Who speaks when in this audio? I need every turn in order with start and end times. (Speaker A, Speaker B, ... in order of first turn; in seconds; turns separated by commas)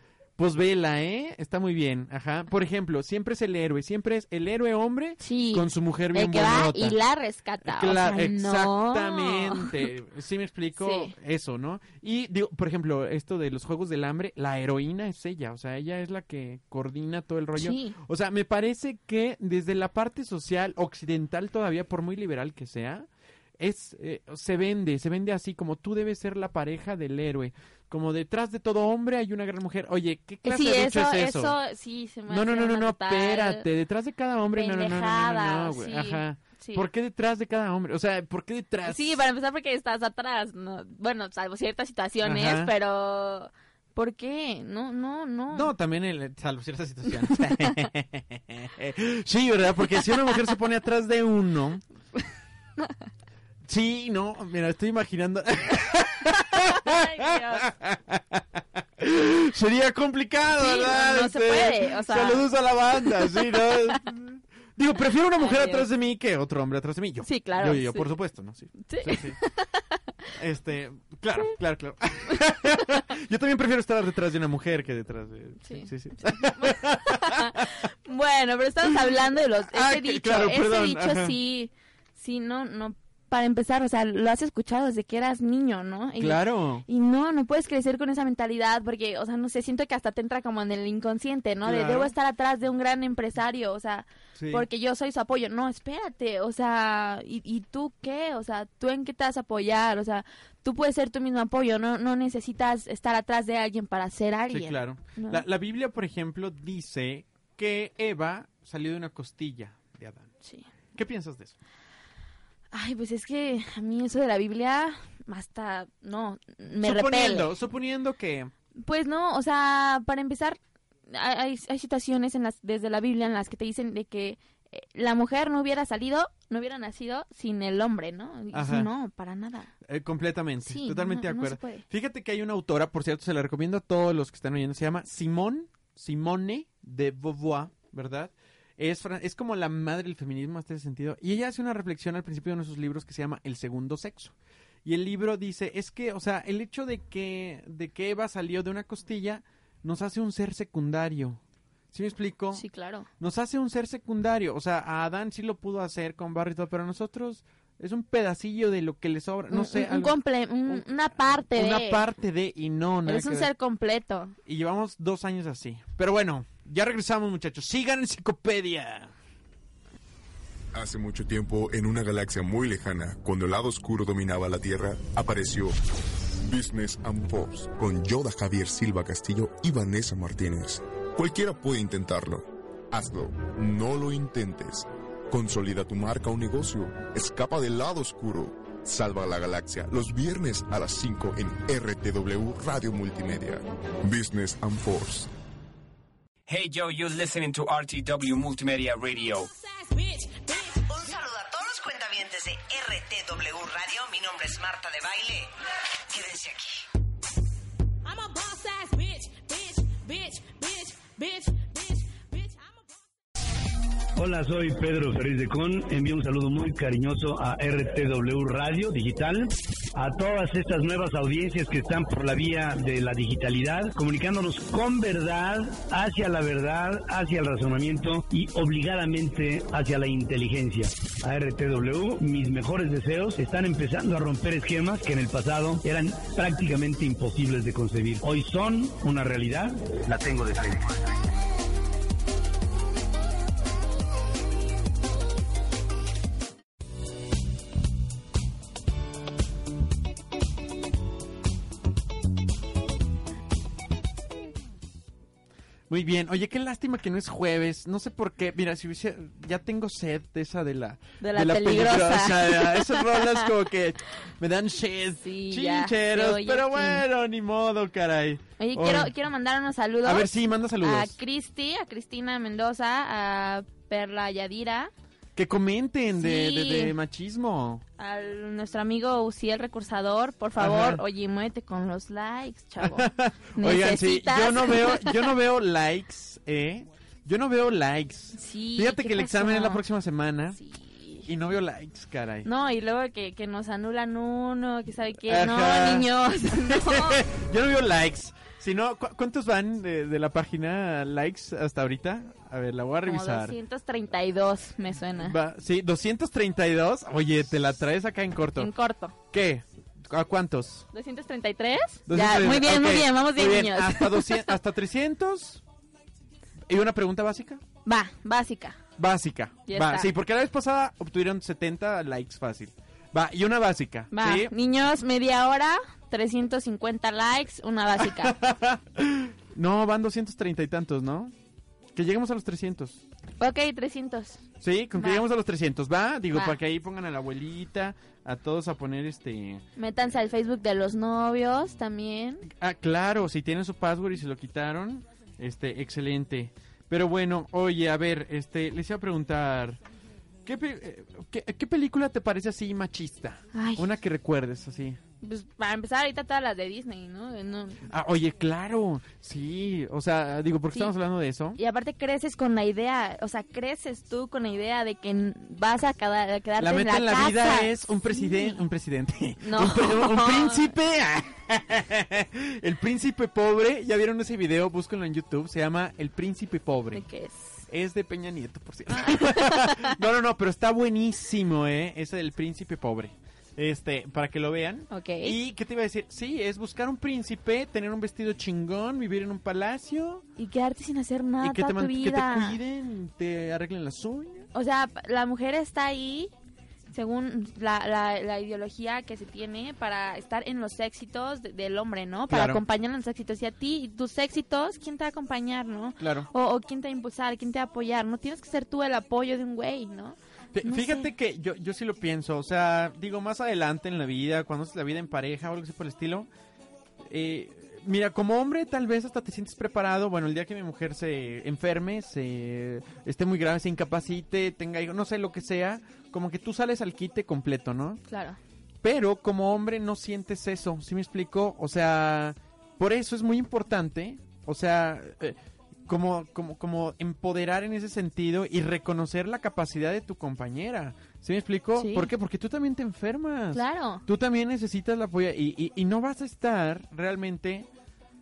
Speaker A: 0.4-7.0, Speaker B: 5.2-9.8, Speaker A: 7.6-23.1, Speaker B: 10.8-11.1, Speaker B: 17.6-17.9, Speaker A: 23.6-31.6, Speaker B: 30.4-33.6, Speaker A: 32.3-39.2, Speaker B: 34.5-36.9, Speaker B: 38.8-45.7, Speaker A: 42.2-42.7, Speaker A: 45.5-51.8, Speaker B: 47.4-47.7, Speaker A: 53.6-69.4, Speaker B: 56.5-57.7, Speaker B: 60.6-62.5, Speaker B: 63.0-63.9, Speaker B: 65.4-65.9, Speaker B: 67.2-68.1, Speaker B: 68.8-70.0, Speaker A: 70.3-77.7, Speaker B: 75.6-105.4, Speaker A: 79.7-81.3, Speaker A: 86.2-86.8, Speaker A: 91.6-92.1, Speaker A: 94.3-94.7, Speaker A: 104.5-110.3, Speaker B: 110.4-110.7, Speaker A: 110.9-111.5, Speaker B: 112.7-117.5, Speaker A: 116.8-118.5, Speaker B: 118.8-120.6, Speaker B: 121.1-129.7, Speaker A: 128.5-128.9, Speaker A: 129.8-151.4, Speaker B: 130.6-131.8, Speaker A: 151.9-152.6, Speaker B: 152.5-153.1, Speaker A: 153.2-160.1, Speaker B: 159.5-162.0, Speaker A: 160.7-163.5, Speaker B: 163.1-164.3, Speaker A: 164.4-169.1, Speaker C: 170.7-175.8, Speaker C: 176.4-195.3, Speaker D: 196.5-199.5, Speaker E: 199.4-200.9, Speaker F: 200.9-205.5, Speaker F: 206.1-206.9, Speaker E: 208.0-212.9, Speaker G: 214.2-241.0, Speaker A: 255.9-269.1, Speaker B: 261.2-263.5, Speaker B: 265.2-267.0, Speaker B: 268.6-270.3, Speaker A: 270.0-271.1, Speaker B: 270.8-274.9, Speaker A: 275.4-277.8, Speaker B: 276.1-276.9, Speaker B: 278.0-285.3, Speaker A: 280.6-281.0, Speaker A: 282.8-290.6, Speaker B: 288.3-289.8, Speaker B: 290.6-291.3, Speaker A: 291.2-292.5, Speaker B: 292.4-297.2, Speaker A: 295.3-303.6, Speaker B: 303.1-305.4, Speaker A: 305.1-308.7, Speaker B: 308.6-309.1, Speaker A: 309.3-310.9, Speaker B: 310.9-314.5, Speaker A: 312.1-315.6, Speaker A: 316.7-317.6, Speaker B: 317.8-318.8, Speaker A: 319.0-324.5, Speaker B: 319.7-320.1, Speaker B: 324.1-328.4, Speaker A: 328.0-331.3, Speaker A: 331.9-333.0, Speaker B: 333.4-334.4, Speaker A: 334.6-339.6, Speaker B: 334.9-335.2, Speaker B: 336.3-336.6, Speaker B: 339.8-342.5, Speaker A: 342.5-349.8, Speaker A: 350.4-355.0, Speaker B: 353.5-353.9, Speaker B: 355.2-357.9, Speaker A: 357.9-361.6, Speaker B: 361.6-368.6, Speaker A: 366.6-377.0, Speaker B: 369.4-370.7, Speaker B: 376.9-377.6, Speaker A: 377.7-390.2, Speaker B: 378.9-379.9, Speaker B: 384.9-385.4, Speaker B: 390.4-392.6, Speaker A: 391.4-394.5, Speaker B: 394.5-396.3, Speaker B: 396.9-411.1, Speaker A: 402.3-402.6, Speaker A: 406.0-406.3, Speaker A: 410.5-416.3, Speaker A: 417.1-428.0, Speaker B: 428.1-428.4, Speaker A: 428.8-447.7, Speaker B: 441.8-442.1, Speaker B: 443.5-444.0